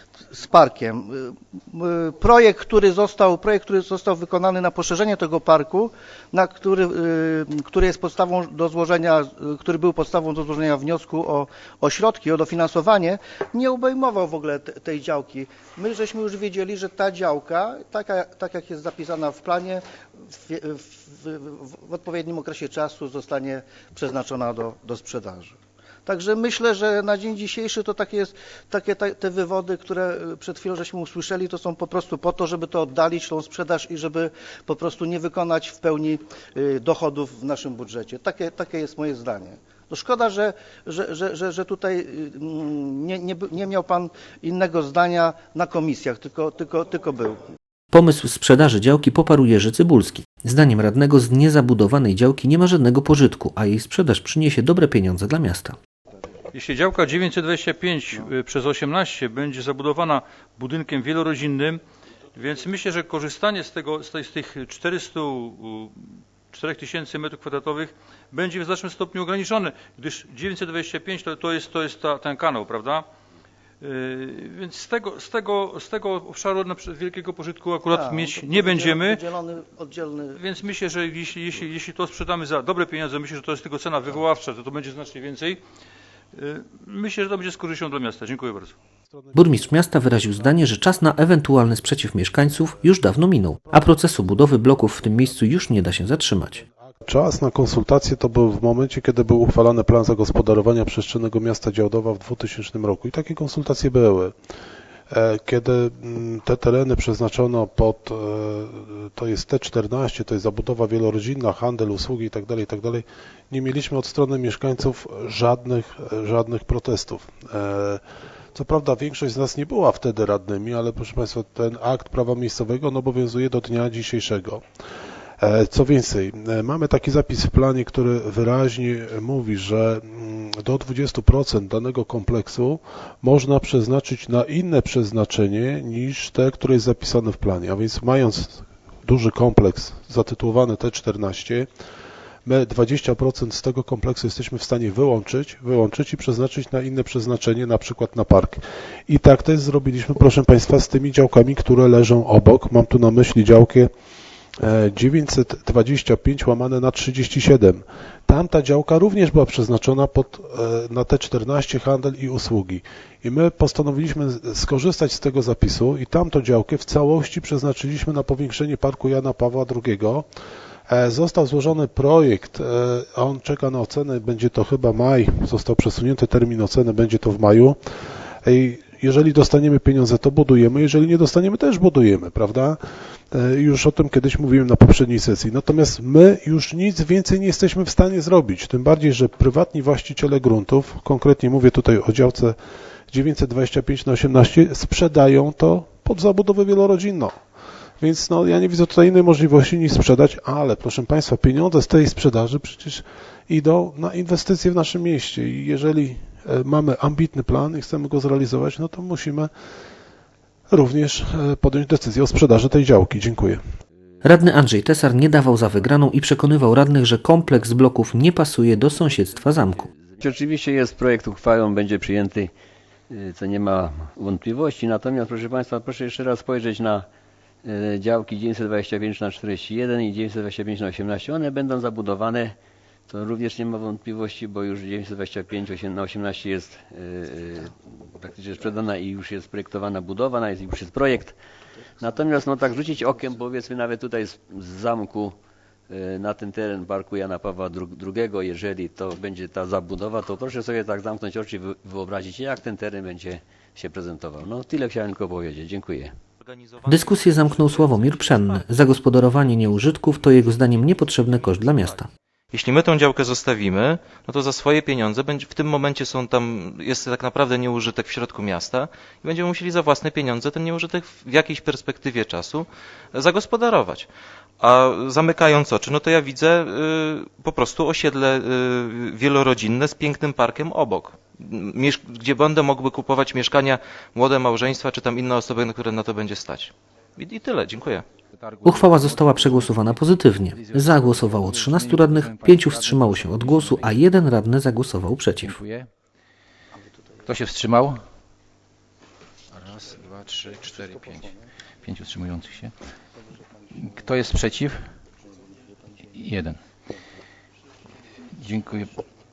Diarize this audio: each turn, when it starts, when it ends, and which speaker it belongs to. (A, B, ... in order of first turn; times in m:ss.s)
0:00.3-0:47.5 A
0:47.9-0:55.8 B
0:56.5-1:01.8 C
1:02.3-1:13.0 C
1:13.8-1:19.2 C
1:17.9-1:20.4 A
1:20.3-1:25.6 C
1:26.4-1:28.7 C
1:29.1-1:44.3 D
1:29.3-1:36.6 B
1:45.1-1:58.0 D
1:58.5-2:04.6 D
2:05.4-2:21.7 D
2:22.4-2:33.9 D
2:34.6-2:50.3 D
2:50.9-2:57.8 D
2:58.4-3:02.8 D
3:03.3-3:12.6 D
3:13.1-3:17.4 D
3:18.0-3:29.5 D
3:30.7-3:33.6 D
3:34.2-3:39.9 B
3:38.8-3:42.5 E
3:43.1-3:47.1 E
3:47.6-3:52.6 E
3:53.1-4:01.4 E
4:02.0-4:05.3 E
4:05.9-4:16.2 E
4:16.4-4:19.6 F
4:16.8-4:22.1 B
4:22.5-4:34.1 F
4:34.6-4:48.0 F
4:48.3-4:54.1 G
4:48.6-4:55.6 B
4:55.4-4:55.9 G
4:57.2-4:58.0 G
4:59.5-5:02.7 G
5:03.7-5:04.9 G
5:06.1-5:06.6 G
5:08.4-5:09.0 G